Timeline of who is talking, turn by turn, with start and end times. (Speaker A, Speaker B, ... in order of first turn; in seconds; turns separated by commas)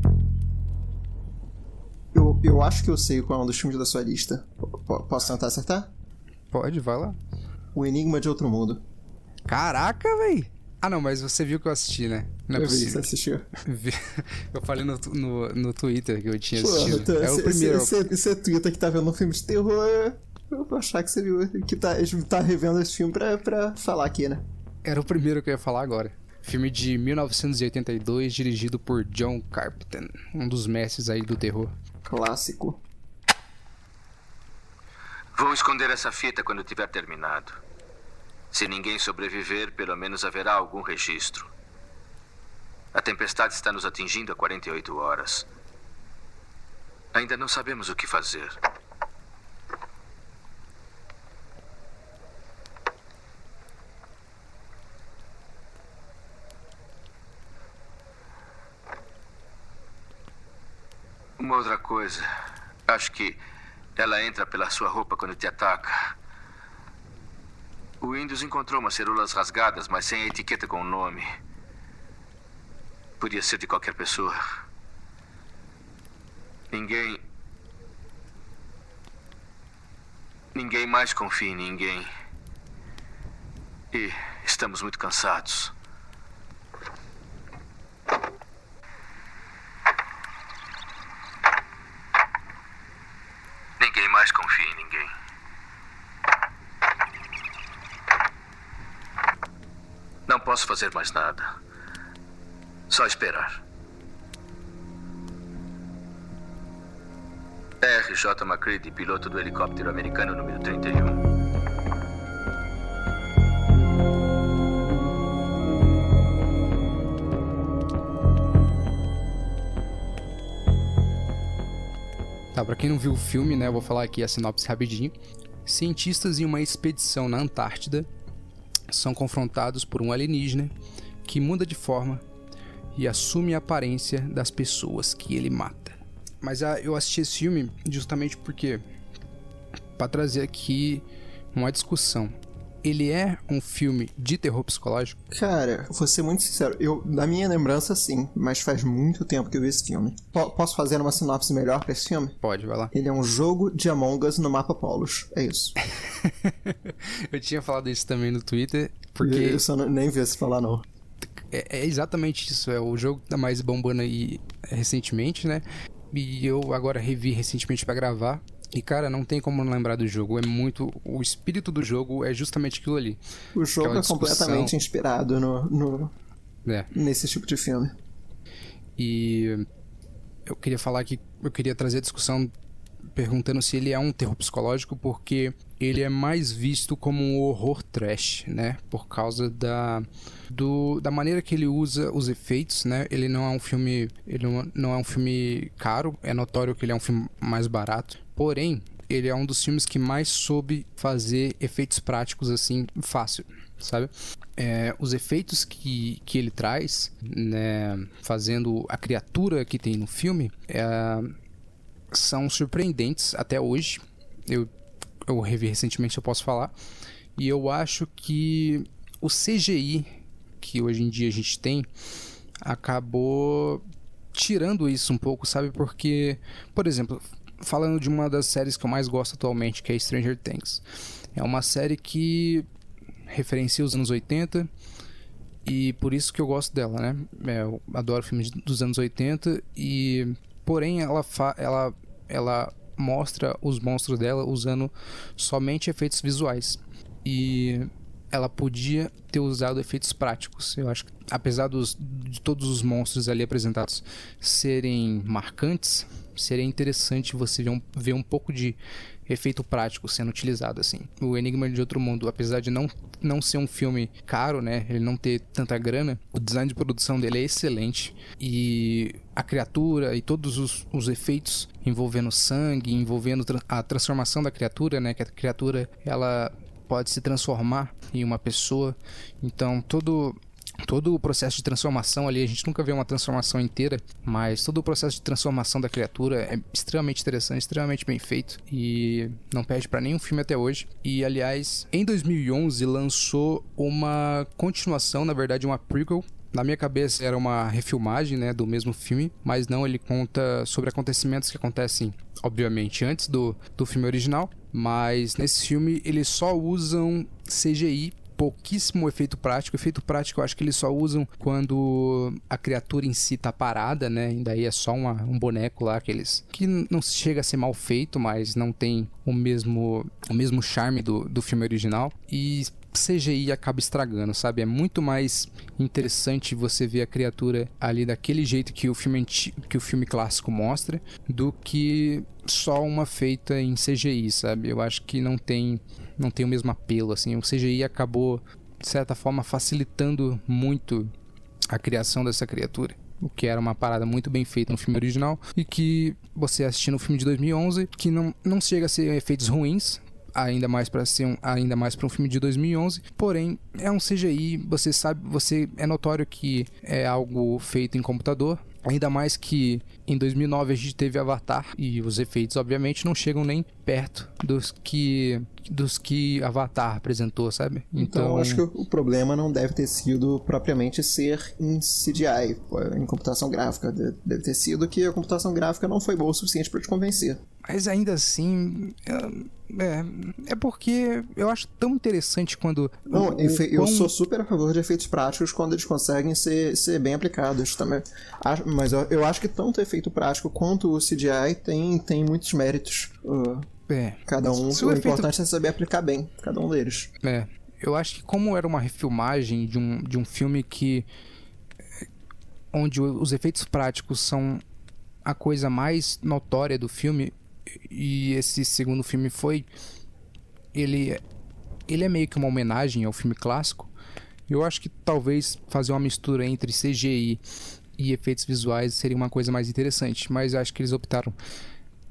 Speaker A: 2.1-5.9, Speaker B: 6.5-7.2, Speaker A: 7.7-8.8, Speaker B: 9.5-13.1, Speaker A: 12.5-13.5, Speaker B: 13.6-18.0, Speaker A: 16.5-24.4, Speaker B: 24.8-31.7, Speaker A: 32.0-32.8, Speaker C: 35.3-37.6, Speaker C: 38.5-41.5, Speaker C: 42.9-45.5, Speaker C: 47.1-48.5, Speaker C: 61.4-62.2, Speaker C: 62.9-63.4, Speaker C: 64.0-66.0, Speaker C: 68.0-71.3, Speaker C: 73.2-74.4, Speaker C: 76.7-77.2, Speaker C: 80.5-82.1, Speaker C: 83.9-85.7, Speaker C: 93.8-95.1, Speaker C: 100.3-101.5, Speaker C: 102.9-103.6, Speaker C: 107.8-111.2, Speaker B: 122.5-125.1, Speaker B: 125.6-128.1, Speaker B: 128.9-130.7, Speaker B: 131.2-132.2, Speaker B: 132.9-138.8, Speaker B: 140.0-145.2, Speaker A: 145.3-152.4, Speaker B: 152.4-152.9, Speaker A: 152.9-155.8, Speaker B: 156.0-159.6, Speaker A: 159.2-160.8, Speaker B: 161.3-173.2, Speaker A: 173.5-176.1, Speaker B: 173.8-174.7, Speaker A: 176.9-177.9, Speaker B: 179.0-179.6, Speaker B: 180.5-182.5, Speaker B: 183.1-211.3, Speaker B: 212.1-214.7, Speaker B: 215.2-216.7, Speaker B: 217.3-221.9, Speaker B: 222.6-230.8, Speaker B: 231.3-232.7, Speaker B: 233.3-234.7, Speaker B: 235.6-341.1, Speaker B: 341.7-368.6, Speaker A: 368.0-377.4, Speaker B: 377.7-384.1, Speaker A: 383.1-393.7, Speaker B: 393.9-395.3, Speaker A: 394.2-397.1, Speaker B: 397.2-401.1, Speaker B: 402.7-404.6, Speaker B: 405.2-409.7, Speaker B: 410.7-411.2, Speaker B: 411.9-413.9, Speaker B: 414.5-417.4, Speaker B: 418.0-421.4